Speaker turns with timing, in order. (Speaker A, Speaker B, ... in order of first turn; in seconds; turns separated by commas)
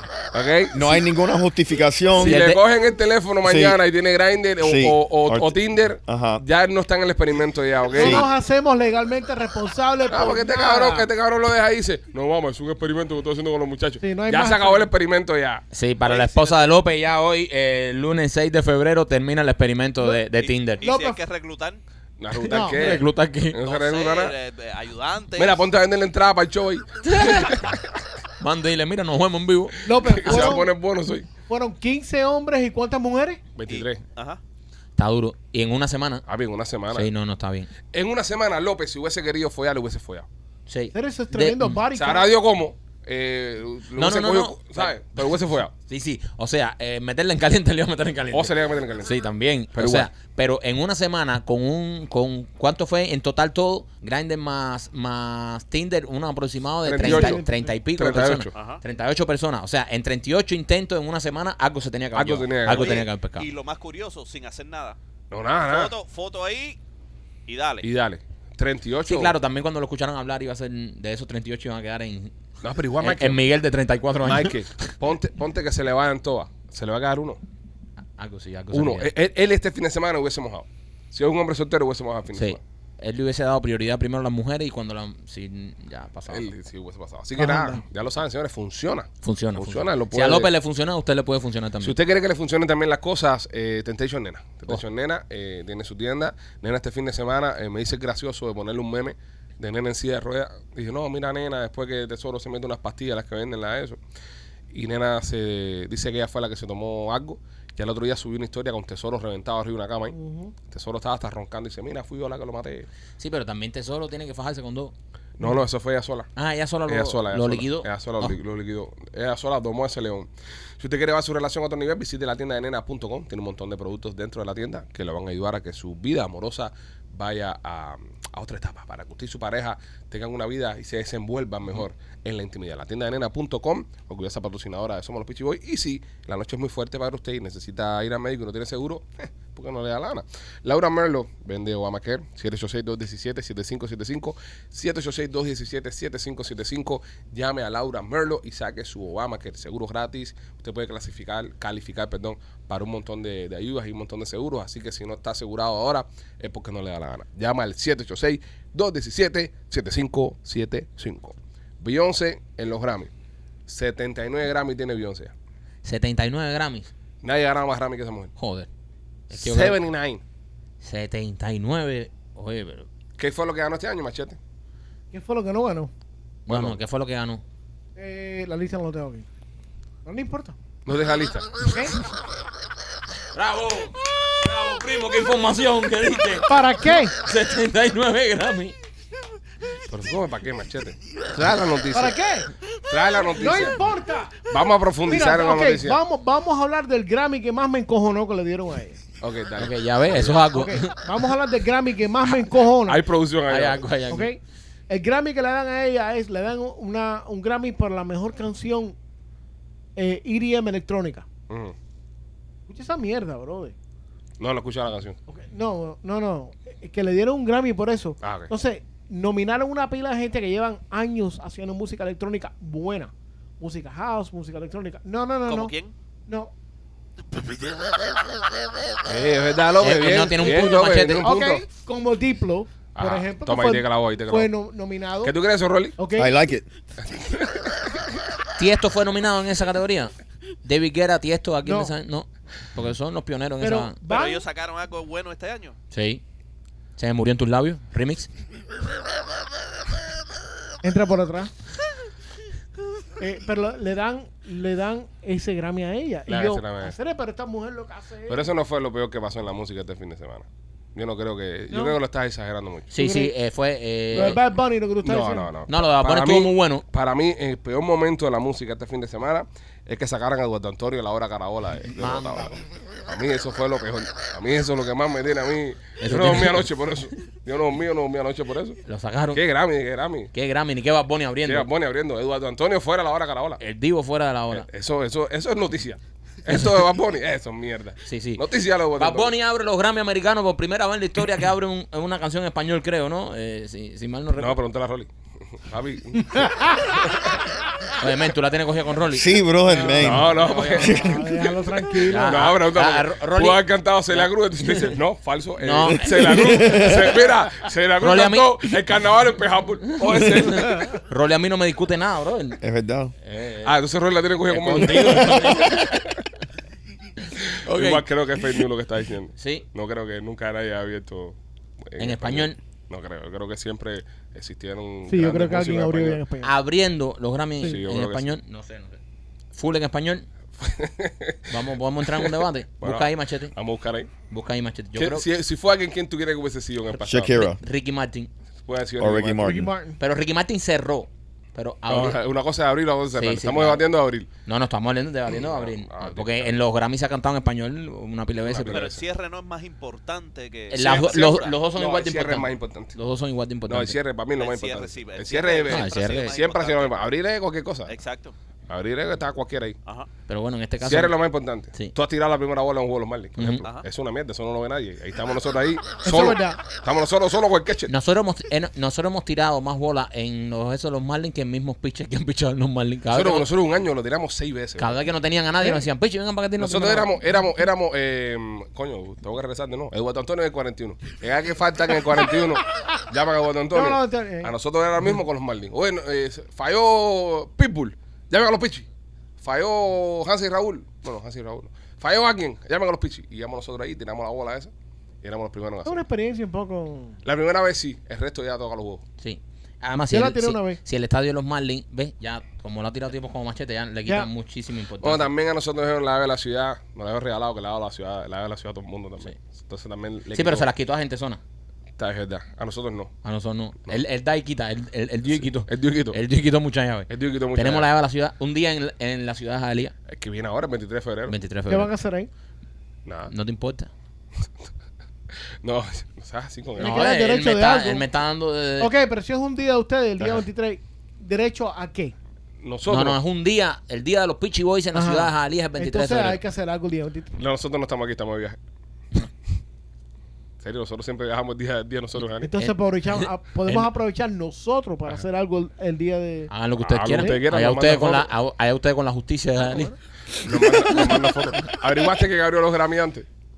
Speaker A: 0.3-0.9, Speaker B: 0.7-2.4, Speaker A: 2.2-8.3, Speaker C: 2.2-2.6, Speaker B: 3.4-3.8, Speaker B: 4.6-6.4, Speaker D: 7.9-11.1, Speaker B: 8.0-8.3, Speaker A: 10.1-15.7, Speaker D: 14.0-14.9, Speaker C: 15.7-20.8, Speaker E: 16.1-16.7, Speaker E: 20.4-21.8, Speaker D: 20.8-21.2, Speaker A: 22.2-24.4, Speaker D: 22.5-23.0, Speaker C: 22.5-23.6, Speaker E: 23.6-25.6, Speaker A: 25.4-27.8, Speaker C: 27.1-27.8, Speaker C: 28.4-30.6, Speaker D: 29.9-30.7, Speaker A: 30.0-31.3, Speaker D: 31.5-33.4, Speaker A: 33.6-34.0, Speaker E: 33.7-34.4, Speaker C: 35.0-36.2, Speaker A: 36.3-37.1, Speaker C: 36.9-37.7, Speaker A: 37.9-40.3, Speaker C: 40.7-41.8, Speaker D: 40.9-42.3, Speaker A: 41.9-45.7, Speaker C: 44.0-45.2, Speaker C: 45.9-63.5, Speaker A: 48.3-49.1, Speaker A: 49.8-50.1, Speaker A: 56.8-57.4, Speaker D: 57.0-57.8, Speaker A: 58.0-58.5, Speaker E: 58.5-58.8, Speaker A: 62.1-63.0, Speaker E: 62.7-65.0, Speaker A: 65.3-65.9, Speaker E: 65.6-66.8, Speaker E: 67.5-67.9, Speaker A: 67.8-69.3, Speaker C: 69.1-72.3, Speaker A: 72.6-73.4, Speaker C: 73.0-74.9, Speaker A: 74.2-77.4, Speaker C: 78.2-79.1, Speaker A: 78.7-82.6, Speaker C: 82.3-86.5, Speaker A: 86.3-90.5, Speaker D: 87.4-87.8, Speaker C: 89.2-92.0, Speaker A: 91.8-104.0, Speaker A: 104.7-110.2, Speaker D: 110.1-110.5, Speaker A: 110.7-112.9, Speaker C: 113.2-114.9, Speaker A: 115.4-116.3, Speaker C: 116.4-118.4, Speaker A: 116.9-163.1, Speaker A: 163.7-165.3, Speaker C: 165.8-166.9, Speaker A: 167.2-168.3, Speaker C: 168.4-168.7, Speaker C: 169.3-169.8, Speaker A: 169.3-170.2, Speaker C: 170.8-172.9, Speaker A: 173.2-174.4, Speaker D: 175.1-175.9, Speaker C: 176.5-177.4, Speaker A: 176.5-176.8, Speaker D: 178.0-179.3, Speaker D: 180.1-180.6, Speaker A: 180.9-181.7, Speaker D: 181.7-182.0, Speaker C: 183.3-186.5, Speaker D: 186.4-187.2, Speaker C: 187.1-188.8, Speaker A: 189.9-192.2, Speaker D: 191.9-192.5, Speaker A: 192.8-193.8, Speaker D: 193.4-194.5, Speaker A: 194.5-196.0, Speaker D: 195.1-199.0, Speaker A: 199.2-200.4, Speaker C: 199.6-201.0, Speaker D: 200.5-203.0, Speaker A: 202.8-203.8, Speaker C: 203.5-204.3, Speaker D: 204.1-208.9, Speaker D: 210.0-211.3, Speaker A: 211.5-211.8, Speaker D: 212.7-213.8, Speaker A: 214.4-215.2, Speaker D: 215.3-225.7, Speaker A: 218.2-218.5, Speaker E: 225.5-225.9, Speaker D: 226.3-226.5, Speaker E: 227.3-228.0, Speaker A: 229.1-231.6, Speaker C: 229.8-231.3, Speaker D: 231.2-235.3, Speaker A: 232.9-234.5, Speaker A: 235.2-236.0, Speaker D: 236.0-236.3, Speaker B: 236.2-236.7, Speaker A: 237.0-237.9, Speaker C: 238.6-240.1, Speaker C: 240.6-244.0, Speaker D: 241.7-241.9, Speaker D: 243.6-244.4, Speaker E: 244.1-245.8, Speaker C: 245.9-246.2, Speaker C: 247.0-248.3, Speaker D: 250.8-251.5, Speaker D: 253.2-258.5, Speaker A: 256.3-256.9, Speaker A: 258.3-262.9, Speaker D: 261.7-262.0, Speaker C: 262.9-264.4, Speaker D: 262.9-263.3, Speaker D: 264.1-265.5, Speaker A: 264.1-264.4, Speaker A: 265.0-278.8, Speaker C: 265.7-266.8, Speaker C: 272.0-272.5, Speaker C: 276.0-276.7, Speaker C: 278.9-279.4, Speaker A: 279.3-280.3, Speaker C: 280.3-281.7, Speaker A: 281.4-283.6, Speaker C: 283.6-284.7, Speaker A: 284.5-289.3, Speaker C: 286.5-286.8, Speaker C: 288.1-288.4, Speaker C: 289.0-294.6, Speaker A: 294.4-297.3, Speaker D: 296.2-297.0, Speaker C: 297.9-299.4, Speaker B: 299.1-301.3, Speaker D: 299.7-302.4, Speaker A: 300.0-301.0, Speaker C: 300.3-301.2, Speaker C: 302.1-305.0, Speaker A: 302.2-311.0, Speaker C: 305.6-307.2, Speaker B: 306.3-307.1, Speaker C: 308.0-308.6, Speaker C: 310.0-312.6, Speaker B: 312.6-313.1, Speaker C: 313.2-313.8, Speaker A: 313.6-316.0, Speaker C: 314.5-316.2, Speaker C: 317.6-318.6, Speaker A: 317.7-326.2, Speaker C: 319.4-319.7, Speaker C: 322.0-322.6, Speaker D: 325.1-326.5, Speaker C: 326.4-329.0, Speaker A: 327.6-328.3, Speaker C: 329.5-330.3, Speaker A: 330.6-334.1, Speaker C: 331.5-333.6, Speaker C: 334.3-335.3, Speaker A: 335.0-337.4, Speaker B: 337.0-337.6, Speaker C: 337.3-338.3, Speaker A: 338.6-339.6, Speaker B: 339.0-339.7, Speaker D: 339.4-340.0, Speaker C: 340.0-342.2, Speaker A: 341.9-344.3, Speaker C: 343.1-343.9, Speaker C: 344.4-348.9, Speaker A: 345.3-346.6, Speaker A: 348.4-349.1, Speaker E: 348.7-351.5, Speaker C: 350.7-354.0, Speaker A: 350.8-352.9, Speaker A: 353.7-357.9, Speaker E: 354.4-357.1, Speaker C: 355.7-356.4, Speaker E: 357.9-358.4, Speaker A: 358.7-359.8, Speaker C: 360.3-361.2, Speaker A: 360.8-367.9, Speaker C: 363.4-363.7, Speaker D: 366.0-366.6, Speaker C: 367.9-373.5, Speaker A: 373.1-375.0, Speaker C: 374.8-377.1, Speaker A: 376.6-388.9, Speaker D: 383.7-384.5, Speaker A: 389.4-394.7, Speaker A: 395.2-396.0, Speaker D: 395.9-397.2, Speaker A: 397.2-399.0, Speaker C: 399.2-405.3, Speaker D: 400.1-400.8, Speaker A: 405.0-410.7, Speaker C: 410.3-411.4, Speaker A: 412.0-413.1, Speaker C: 413.2-419.9, Speaker A: 415.3-416.2, Speaker A: 417.1-417.9, Speaker A: 420.1-421.4, Speaker C: 421.3-421.9, Speaker D: 421.7-422.3, Speaker A: 423.1-423.3, Speaker C: 423.3-423.9, Speaker A: 425.6-427.1, Speaker D: 426.8-428.1, Speaker C: 426.8-428.9, Speaker D: 428.8-432.1, Speaker A: 432.6-433.2, Speaker C: 432.9-436.4, Speaker D: 434.9-437.4, Speaker A: 437.4-438.6, Speaker A: 440.6-442.5, Speaker D: 442.4-446.5, Speaker C: 442.6-443.9, Speaker C: 446.5-449.9, Speaker A: 446.8-448.3, Speaker D: 447.1-447.4, Speaker D: 449.6-450.0, Speaker A: 450.4-453.3